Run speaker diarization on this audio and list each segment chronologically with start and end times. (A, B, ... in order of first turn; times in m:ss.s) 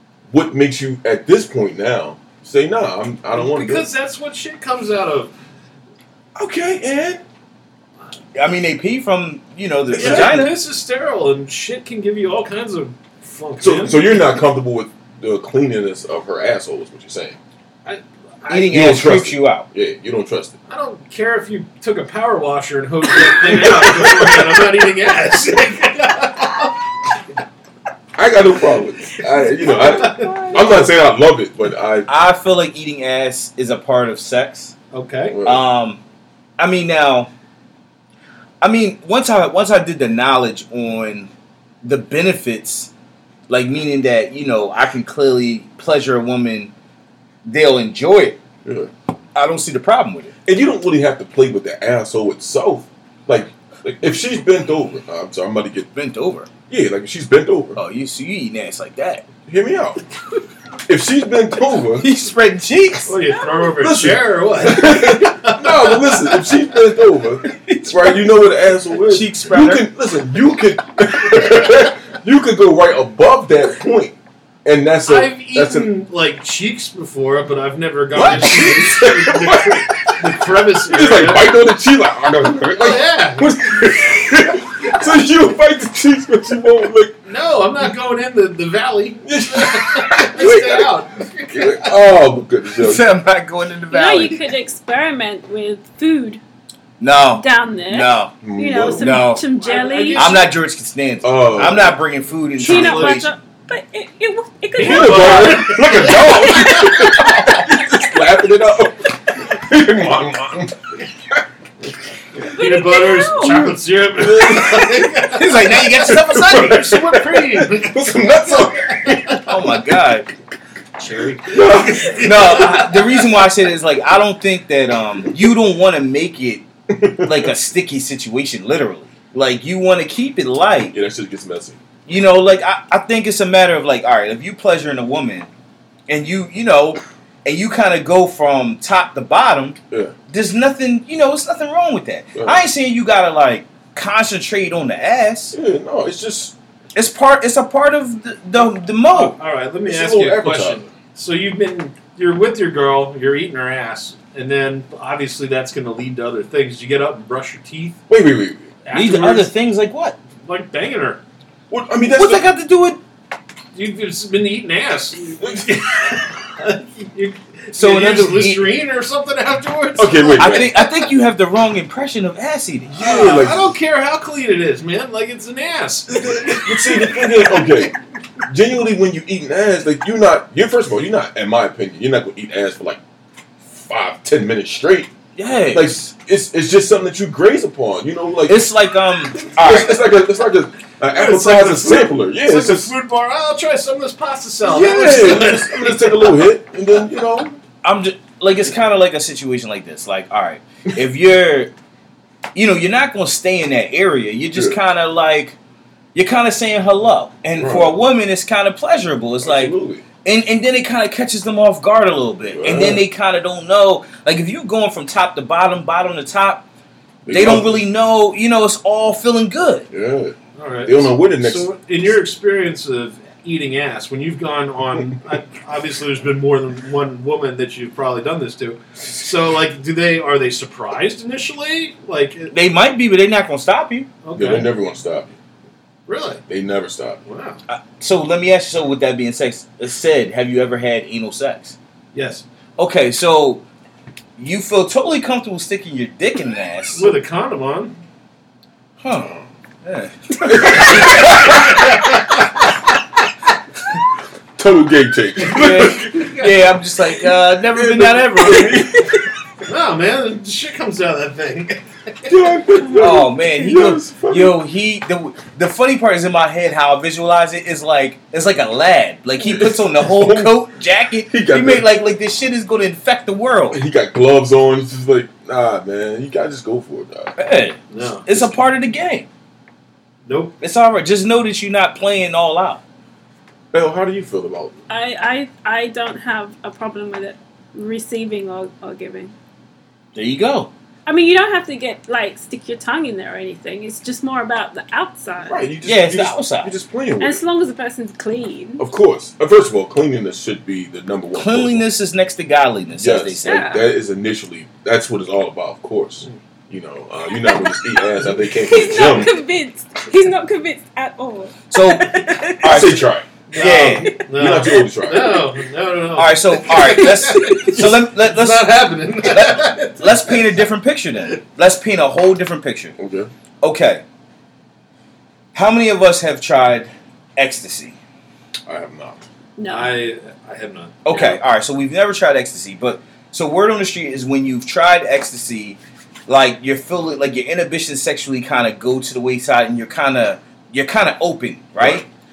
0:00.3-0:03.9 A
0:03.3-0:05.3 B
0:06.4-0:07.2 A
0:08.4-0:10.6 C
0:09.9-0:10.5 A
0:09.9-0:14.3 B
0:13.6-0:17.4 A
0:17.8-0:18.8 B
0:18.5-0:19.7 C
0:18.7-0:20.6 A
0:20.7-0:26.9 B
0:23.4-0:24.6 A
0:28.2-0:32.1 A
0:29.5-0:30.6 D
0:29.6-0:30.7 B
0:32.1-0:34.8 C
0:34.9-0:35.4 B
0:35.3-0:35.6 A
0:35.4-0:36.0 C
0:36.6-0:37.3 C
0:38.6-0:41.3 C
0:41.8-0:42.9 C
0:43.5-0:46.7 C
0:47.4-0:48.4 C
0:48.6-0:48.9 A
0:49.4-0:50.3 C
0:50.4-0:55.9 A
0:55.9-0:56.5 C
0:56.7-0:57.8 A
0:57.8-0:59.2 C
0:59.5-1:00.0 A
1:00.9-1:02.1 A
1:02.0-1:03.2 C
1:03.1-1:06.5 B
1:03.8-1:15.9 A
1:07.5-1:08.3 C
1:09.0-1:09.9 C
1:15.1-1:21.6 B
1:18.1-1:18.9 C
1:18.2-1:27.2 A
1:22.7-1:24.0 B
1:27.3-1:32.2 B
1:29.2-1:30.9 A
1:31.5-1:33.0 A
1:32.8-1:34.5 C
1:33.9-1:36.4 D
1:37.0-1:39.4 C
1:37.4-1:40.4 D
1:38.4-1:39.2 A
1:39.6-1:40.5 B
1:40.2-1:43.3 C
1:41.2-1:42.0 A
1:42.6-1:43.3 B
1:42.6-1:45.8 D
1:44.8-1:47.5 B
1:44.8-1:51.4 A
1:46.3-1:46.9 D
1:52.4-1:59.7 B
1:52.5-1:53.6 D
1:53.5-1:55.3 A
1:55.3-1:56.9 C
1:55.9-1:59.4 A
1:59.4-2:00.3 C
2:01.0-2:03.3 B
2:01.5-2:02.4 A
2:02.2-2:06.7 C
2:06.9-2:07.5 A
2:07.2-2:11.0 C
2:10.9-2:11.8 A
2:12.1-2:15.5 C
2:16.1-2:19.8 C
2:20.3-2:25.6 C
2:22.4-2:22.6 A
2:25.5-2:26.6 A
2:27.0-2:29.4 C
2:28.6-2:38.0 B
2:29.9-2:30.9 A
2:38.1-2:38.8 A
2:38.8-2:39.5 B
2:38.9-2:40.2 C
2:40.4-2:41.2 B
2:41.7-2:42.5 A
2:42.1-2:43.0 C
2:43.7-2:50.9 B
2:45.4-2:46.2 A
2:47.8-2:48.8 C
2:50.0-2:50.7 A
2:50.4-2:53.1 C
2:52.9-2:53.7 A
2:53.0-2:57.8 B
2:56.1-3:03.0 A
3:03.6-3:05.1 A
3:05.4-3:05.9 C
3:05.7-3:08.6 A
3:08.5-3:10.2 C
3:09.5-3:12.9 A
3:11.1-3:16.5 B
3:14.6-3:17.6 A
3:15.0-3:15.6 C
3:17.8-3:21.7 C
3:22.5-3:25.6 C
3:26.1-3:36.6 C
3:27.6-3:28.0 A
3:29.4-3:30.0 A
3:32.5-3:33.0 A
3:37.2-3:37.8 A
3:37.3-3:39.9 C
3:39.9-3:41.7 A
3:40.6-3:52.5 B
3:52.5-3:54.1 C
3:54.2-3:54.7 B
3:54.4-3:55.3 A
3:56.1-3:56.4 B
3:56.5-3:57.2 A
3:57.3-3:57.6 B
3:57.7-4:01.8 C
4:02.1-4:02.4 B
4:02.8-4:03.6 C
4:04.4-4:07.1 C
4:06.9-4:08.0 B
4:09.0-4:11.6 C
4:10.4-4:12.0 A
4:11.5-4:11.9 B
4:14.6-4:16.4 A
4:15.5-4:19.2 C
4:16.1-4:16.5 B
4:17.5-4:19.2 A
4:19.6-4:22.4 B
4:22.3-4:24.6 A
4:23.0-4:33.8 C
4:29.4-4:30.6 A
4:31.3-4:31.9 A
4:33.7-4:37.4 A
4:37.4-4:39.3 C
4:37.9-4:38.3 B
4:40.2-4:40.5 B
4:40.6-4:42.8 C
4:43.7-4:44.8 A
4:44.9-4:49.3 D
4:50.2-4:50.7 C
4:51.1-4:55.6 D
4:55.5-4:57.4 A
4:55.8-4:56.7 C
4:57.2-4:58.8 D
4:58.8-5:01.8 A
5:01.3-5:03.6 C
5:03.0-5:09.3 A
5:03.4-5:03.9 D
5:07.4-5:12.9 D
5:11.7-5:14.1 C
5:12.6-5:13.3 A
5:13.5-5:20.6 B
5:14.4-5:15.5 A
5:16.2-5:23.0 C
5:16.7-5:17.7 D
5:23.0-5:23.3 A
5:23.6-5:24.0 C
5:25.5-5:28.0 C
5:28.7-5:29.2 A
5:29.6-5:29.9 D
5:29.7-5:31.0 B
5:31.1-5:42.1 C
5:31.1-5:31.4 A